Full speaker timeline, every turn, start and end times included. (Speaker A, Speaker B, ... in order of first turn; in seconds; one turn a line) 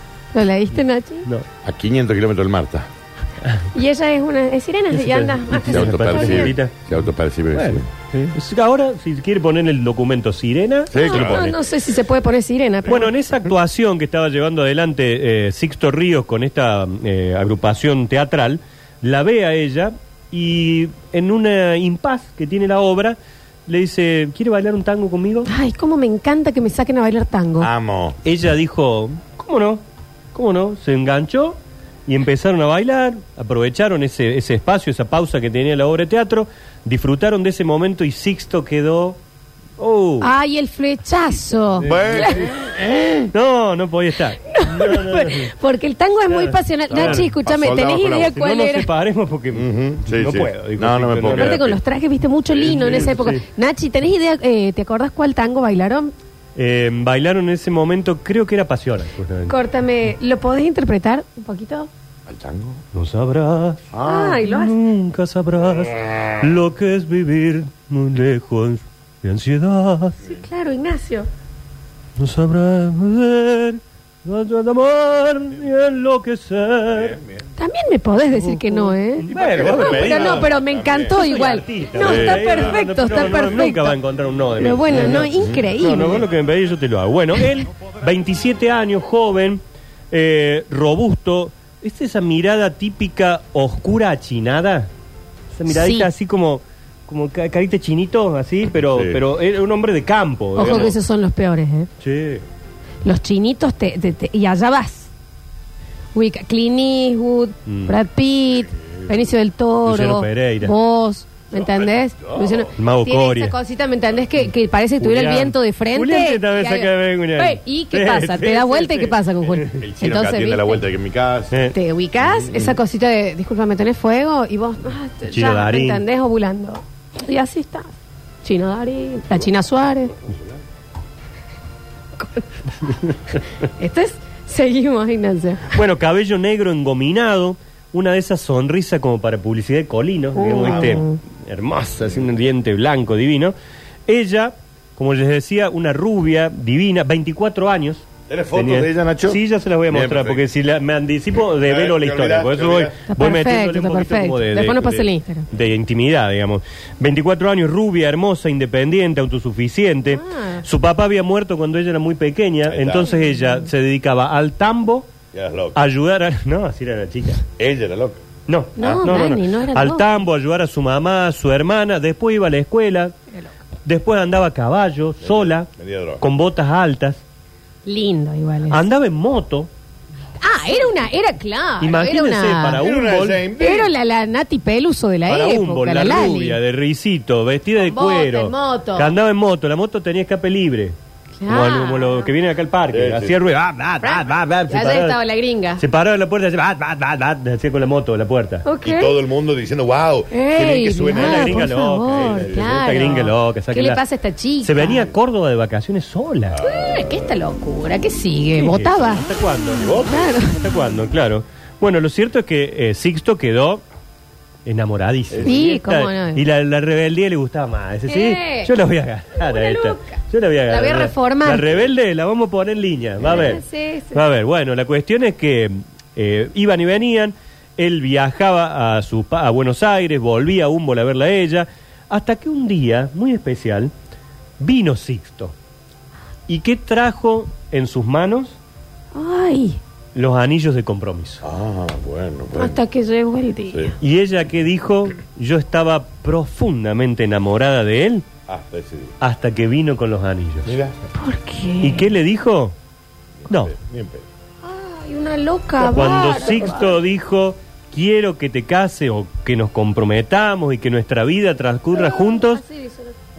Speaker A: 0.3-1.2
Speaker B: 1.6-2.9
Speaker A: 3.7-6.5
Speaker C: 4.9-6.8
Speaker B: 5.5-8.3
Speaker C: 7.5-11.5
Speaker B: 10.9-11.5
Speaker A: 11.0-13.1
Speaker B: 12.8-13.4
Speaker C: 12.9-25.5
Speaker A: 25.5-27.7
Speaker B: 27.6-28.2
Speaker C: 28.2-29.8
Speaker C: 30.3-39.2
Speaker C: 39.8-40.3
Speaker A: 40.2-42.5
Speaker C: 41.8-42.5
Speaker B: 41.8-43.3
Speaker C: 43.3-45.5
Speaker A: 44.4-48.9
Speaker C: 46.3-47.3
Speaker B: 46.9-48.3
Speaker C: 48.4-51.7
Speaker B: 49.5-51.8
Speaker A: 51.3-56.1
Speaker C: 52.6-53.4
Speaker B: 52.7-53.1
Speaker C: 56.5-59.5
Speaker A: 59.5-61.9
Speaker B: 62.3-62.8
Speaker C: 62.9-63.9
Speaker B: 63.9-64.4
Speaker A: 64.0-64.8
Speaker C: 64.4-70.2
Speaker A: 70.2-71.3
Speaker C: 72.2-77.2
Speaker B: 76.9-77.5
Speaker A: 77.6-84.0
Speaker C: 78.3-80.5
Speaker B: 79.3-81.2
Speaker C: 81.1-94.9
Speaker B: 82.0-83.2
Speaker A: 84.6-86.2
Speaker B: 85.1-85.6
Speaker C: 95.5-100.9
Speaker A: 95.7-96.1
Speaker B: 98.9-99.2
Speaker A: 100.5-101.9
Speaker C: 102.0-102.4
Speaker A: 103.0-105.1
Speaker A: 106.1-120.8
Speaker C: 107.7-108.0
Speaker C: 109.8-110.7
Speaker B: 111.5-112.7
Speaker C: 112.8-113.5
Speaker C: 115.0-119.8
Speaker B: 119.7-121.5
Speaker C: 121.5-121.8
Speaker A: 121.7-127.9
Speaker C: 125.3-126.0
Speaker A: 128.4-130.2
Speaker A: 132.2-132.4
Speaker A: 133.8-135.7
Speaker C: 135.7-143.5
Speaker A: 140.3-141.2
Speaker B: 140.6-141.0
Speaker C: 144.1-165.1
Speaker B: 148.3-150.5
Speaker B: 151.5-153.0
Speaker A: 153.1-155.5
Speaker A: 160.1-160.6
Speaker B: 162.7-163.1
Speaker B: 165.3-165.8
Speaker C: 165.7-167.4
Speaker B: 167.6-168.2
Speaker C: 168.5-173.1
Speaker B: 168.8-169.2
Speaker A: 168.8-170.1
Speaker C: 173.8-175.7
Speaker B: 175.2-176.2
Speaker C: 176.2-177.2
Speaker A: 177.8-178.8
Speaker C: 178.7-179.7
Speaker A: 180.4-182.8
Speaker C: 181.8-183.4
Speaker B: 182.7-183.9
Speaker A: 183.6-186.6
Speaker C: 185.3-190.9
Speaker A: 187.8-189.1
Speaker A: 191.4-192.3
Speaker C: 191.5-195.2
Speaker B: 192.9-193.4
Speaker A: 194.0-195.8
Speaker C: 195.8-198.7
Speaker A: 198.7-199.2
Speaker B: 198.8-202.8
Speaker A: 200.3-205.1
Speaker C: 201.1-204.0
Speaker C: 204.6-206.6
Speaker B: 206.5-207.3
Speaker A: 206.6-209.3
Speaker C: 208.6-213.8
Speaker B: 209.8-210.4
Speaker A: 209.8-210.7
Speaker C: 214.6-233.9
Speaker B: 215.3-215.7
Speaker A: 215.4-216.4
Speaker A: 218.1-218.7
Speaker A: 219.3-221.8
Speaker A: 223.2-224.2
Speaker C: 234.6-235.5
Speaker C: 236.5-238.6
Speaker A: 239.1-239.8
Speaker C: 240.1-241.4
Speaker B: 241.4-242.8
Speaker A: 242.5-243.8
Speaker C: 244.0-248.2
Speaker B: 248.5-249.1
Speaker C: 249.2-250.8
Speaker B: 250.7-250.9
Speaker A: 251.1-252.1
Speaker C: 251.8-252.8
Speaker B: 253.4-254.2
Speaker C: 253.5-253.7
Speaker A: 254.6-257.0
Speaker C: 255.8-262.6
Speaker A: 261.9-263.1